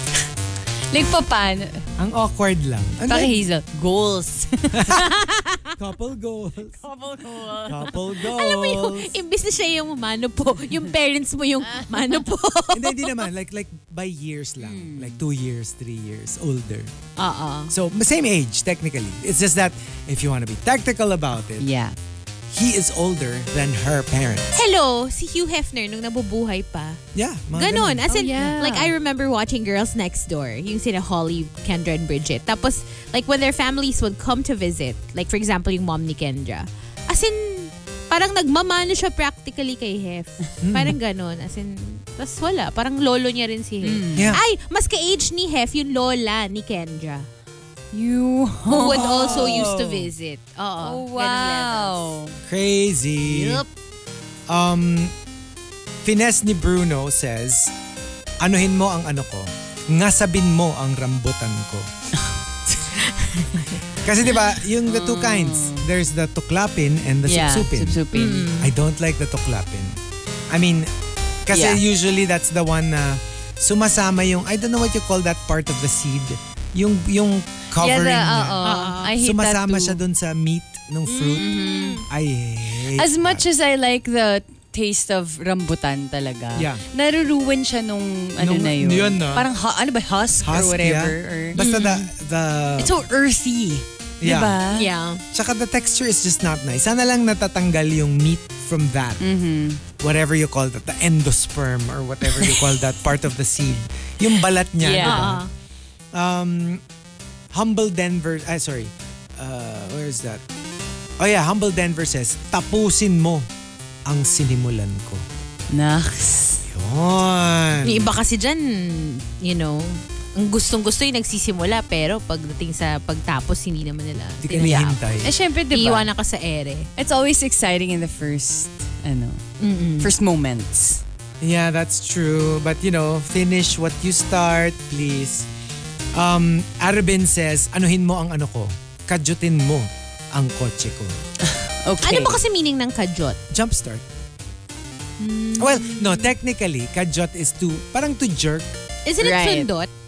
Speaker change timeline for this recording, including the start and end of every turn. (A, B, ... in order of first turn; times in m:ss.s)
0:00.9-0:01.8 A
0:02.0-0:03.4 B
0:03.0-0:05.0 A
0:04.7-0:05.1 B
0:04.9-0:05.8 C
0:05.8-0:06.8 B
0:06.8-0:07.9 A
0:07.6-0:09.2 B
0:08.2-0:13.2 C
0:11.7-0:12.2 A
0:12.7-0:16.9 B
0:14.6-0:15.2 A
0:17.2-0:17.7 C
0:17.7-0:21.6 B
0:21.6-0:22.0 A
0:22.5-0:24.5 B
0:24.6-0:27.0 C
0:27.2-0:28.0 B
0:27.6-0:47.3 C
0:28.1-0:28.9 A
0:40.6-0:41.0 B
0:43.8-0:44.4 A
0:44.2-0:44.4 B
0:47.9-0:49.8 A
0:48.7-0:52.1 C
0:49.0-0:50.0 B
0:50.8-0:52.4 A
0:52.4-0:53.6 B
0:53.2-0:53.7 C
0:54.5-0:55.2 B
0:56.0-0:57.7 B
0:58.4-1:01.9 B
1:03.0-1:03.8 C
1:03.9-1:08.0 B
1:04.8-1:05.9 A
1:07.3-1:08.5 A
1:08.1-1:08.7 C
1:08.6-1:10.0 B
1:10.5-1:10.9 B
1:11.5-1:21.5 B
1:11.5-1:11.8 A
1:17.8-1:20.0 A
1:18.6-1:19.1 C
1:21.1-1:22.0 C
1:21.4-1:22.0 A
1:22.1-1:23.4 B
1:23.0-1:32.1 A
1:26.6-1:26.8 B
1:28.4-1:29.5 B
1:30.4-1:33.0 B
1:32.8-1:34.9 A
1:34.2-1:34.6 B
1:34.7-1:35.2 C
1:35.3-1:39.2 B
1:39.2-1:39.8 A
1:40.0-1:45.4 B
1:44.8-1:45.3 A
1:45.0-1:45.5 C
1:46.1-1:46.8 B
1:47.5-1:50.4 B
1:51.2-1:53.5 B
1:54.1-1:55.2 B
1:55.7-1:56.6 A
1:56.7-1:58.1 B
1:57.8-2:05.2 C
2:04.4-2:05.3 B
2:04.7-2:06.1 A
2:05.7-2:06.9 C
2:07.0-2:09.4 A
2:09.6-2:10.1 C
2:10.0-2:11.0 A
2:11.4-2:15.5 B
2:16.2-2:21.2 B
2:21.5-2:22.4 A
2:22.0-2:23.4 C
2:23.5-2:24.0 B
2:25.3-2:25.8 C
2:25.6-2:28.7 B
2:29.1-2:29.9 C
2:29.2-2:29.7 A